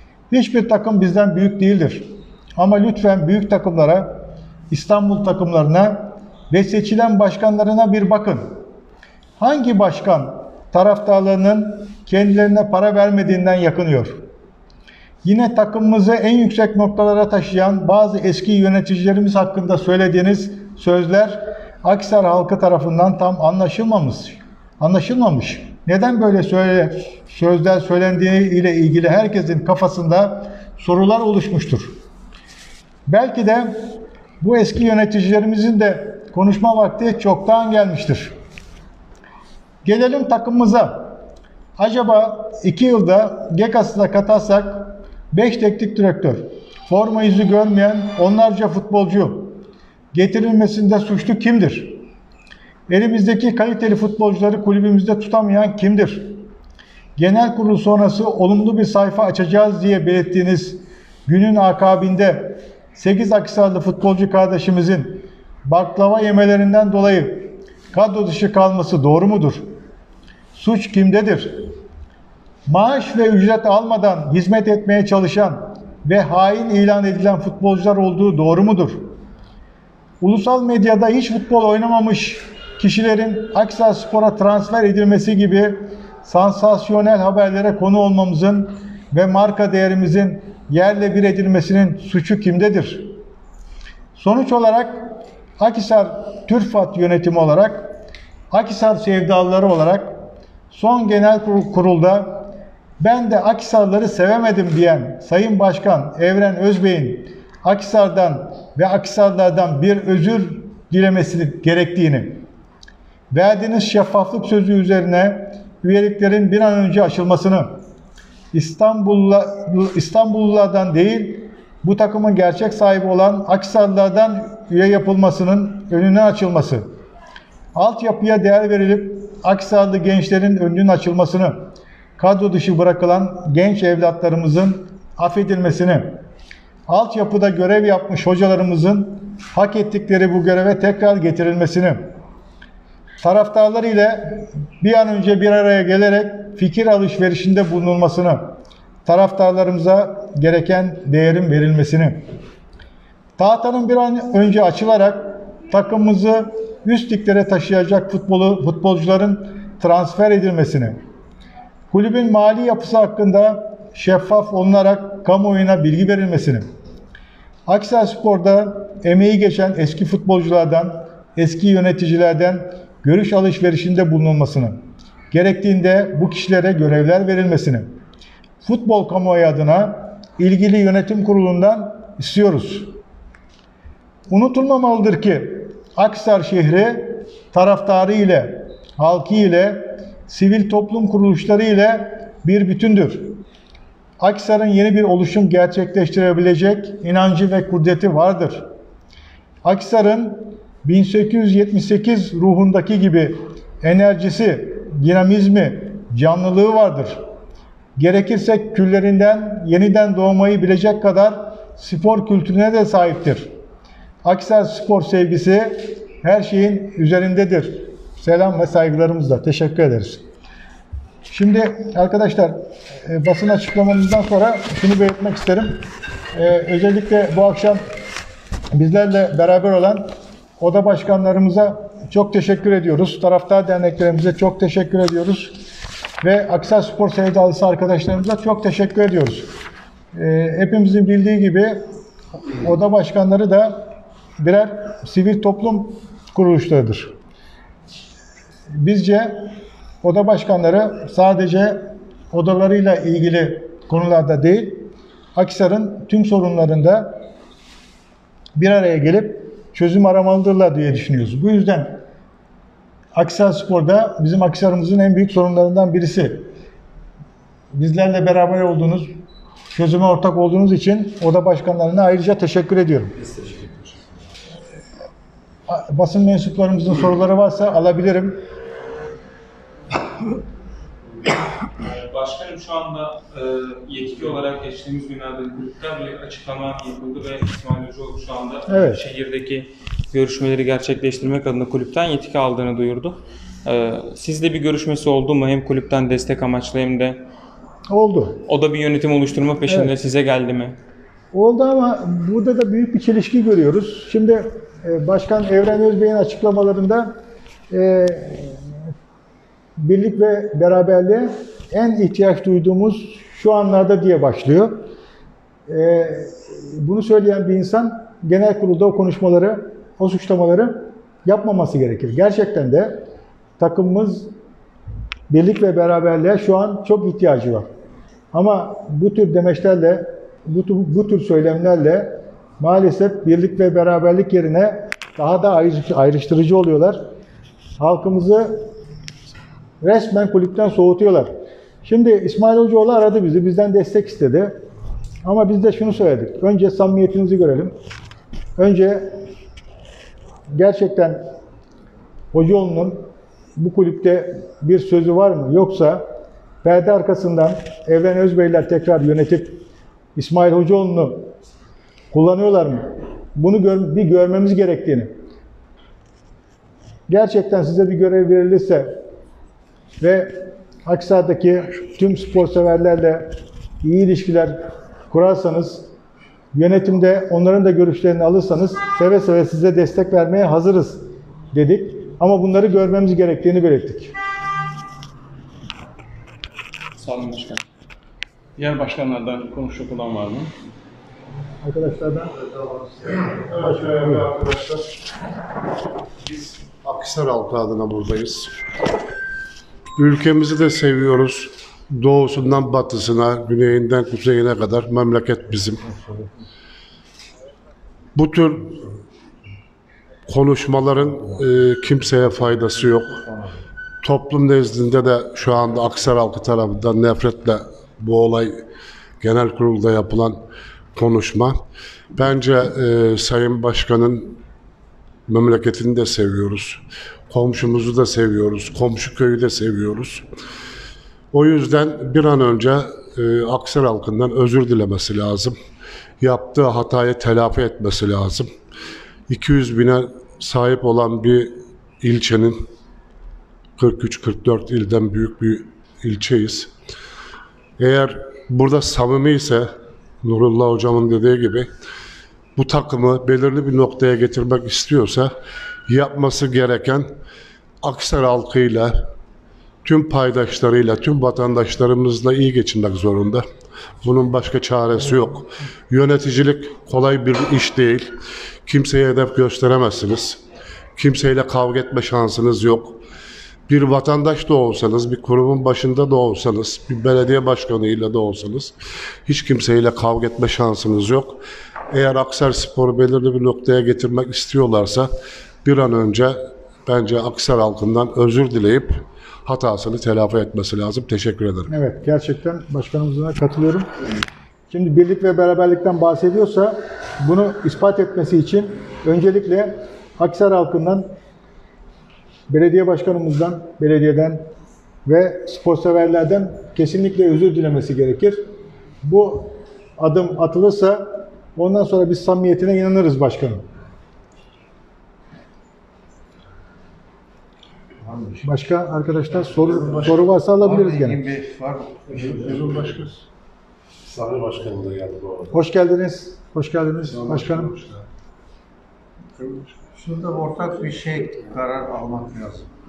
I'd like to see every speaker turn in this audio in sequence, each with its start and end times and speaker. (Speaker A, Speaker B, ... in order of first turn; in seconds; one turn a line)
Speaker A: 0.3-8.6
Speaker A: 9.4-14.2
Speaker A: 15.2-31.9
Speaker A: 33.1-38.4
Speaker A: 39.9-41.2
Speaker A: 41.8-49.6
Speaker A: 50.1-52.0
Speaker A: 52.9-56.5
Speaker A: 57.2-69.7
Speaker A: 70.5-71.7
Speaker A: 72.7-79.1
Speaker A: 80.2-93.2
Speaker A: 94.2-98.0
Speaker A: 98.5-100.2
Speaker A: 100.7-112.5
Speaker A: 113.3-117.8
Speaker A: 118.5-126.9
Speaker A: 127.8-136.2
Speaker A: 136.9-142.1
Speaker A: 143.2-152.3
Speaker A: 153.4-161.0
Speaker A: 161.9-166.7
Speaker A: 167.7-178.0
Speaker A: 178.6-182.9
Speaker A: 184.3-193.4
Speaker A: 194.2-198.7
Speaker A: 199.6-207.2
Speaker A: 208.0-213.5
Speaker A: 214.2-220.2
Speaker A: 221.3-225.8
Speaker A: 226.3-227.8
Speaker A: 228.7-235.6
Speaker A: 236.2-239.5
Speaker A: 240.1-241.9
Speaker A: 242.5-247.2
Speaker A: 248.7-257.2
Speaker A: 258.6-262.0
Speaker A: 263.1-266.5
Speaker A: 267.7-269.1
Speaker A: 269.7-273.2
Speaker B: 273.3-273.7
Speaker A: 275.7-278.4
Speaker C: 281.8-297.2
Speaker A: 288.7-289.0
Speaker A: 297.9-298.4
Speaker C: 298.5-300.8
Speaker A: 299.7-299.9
Speaker A: 301.3-307.1
Speaker A: 307.7-308.8
Speaker A: 309.8-314.9
Speaker A: 315.7-323.1
Speaker A: 323.6-324.3
Speaker A: 325.3-327.7
Speaker A: 328.3-337.1
Speaker A: 337.8-338.7
Speaker A: 339.8-341.3
Speaker A: 341.8-344.6
Speaker A: 345.2-347.8
Speaker A: 348.6-349.2
Speaker A: 350.5-351.2
Speaker A: 352.3-356.1
Speaker A: 356.6-359.6
Speaker A: 360.2-361.3
Speaker A: 362.1-365.1
Speaker A: 367.1-369.0
Speaker A: 370.0-375.9
Speaker A: 376.5-384.1
Speaker C: 387.0-387.6
Speaker B: 388.6-390.5
Speaker A: 391.6-392.3
Speaker D: 392.6-394.9
Speaker A: 393.6-394.3
Speaker D: 396.2-398.5
Speaker D: 400.0-406.0
Speaker D: 408.1-408.9
Speaker D: 410.3-413.3
Speaker D: 414.0-418.6
Speaker D: 419.2-420.4
Speaker D: 420.9-421.6
Speaker D: 422.1-424.4
Speaker D: 425.3-430.3
Speaker D: 431.3-435.6
Speaker D: 436.2-438.5
Speaker D: 439.3-442.6
Speaker D: 443.8-446.7
Speaker D: 447.8-449.7
Speaker D: 450.2-451.7
Speaker D: 452.6-455.3
Speaker D: 455.9-457.1
Speaker D: 457.8-458.9
Speaker D: 459.8-463.5
Speaker D: 464.0-468.1
Speaker D: 468.6-470.4
Speaker D: 471.0-473.0
Speaker D: 473.7-478.8
Speaker D: 479.3-481.4
Speaker D: 481.9-485.1
Speaker D: 485.6-491.7
Speaker A: 491.7-493.9
Speaker A: 494.7-501.1
Speaker A: 502.5-504.4
Speaker A: 505.1-508.5
Speaker A: 509.0-513.7
Speaker E: 518.0-518.5
Speaker A: 518.4-521.2
Speaker D: 519.6-520.2
Speaker E: 520.6-522.2
Speaker D: 522.1-523.2
Speaker D: 524.0-525.6
Speaker A: 525.5-527.7
Speaker D: 527.0-528.0
Speaker D: 529.4-529.8
Speaker E: 529.9-532.7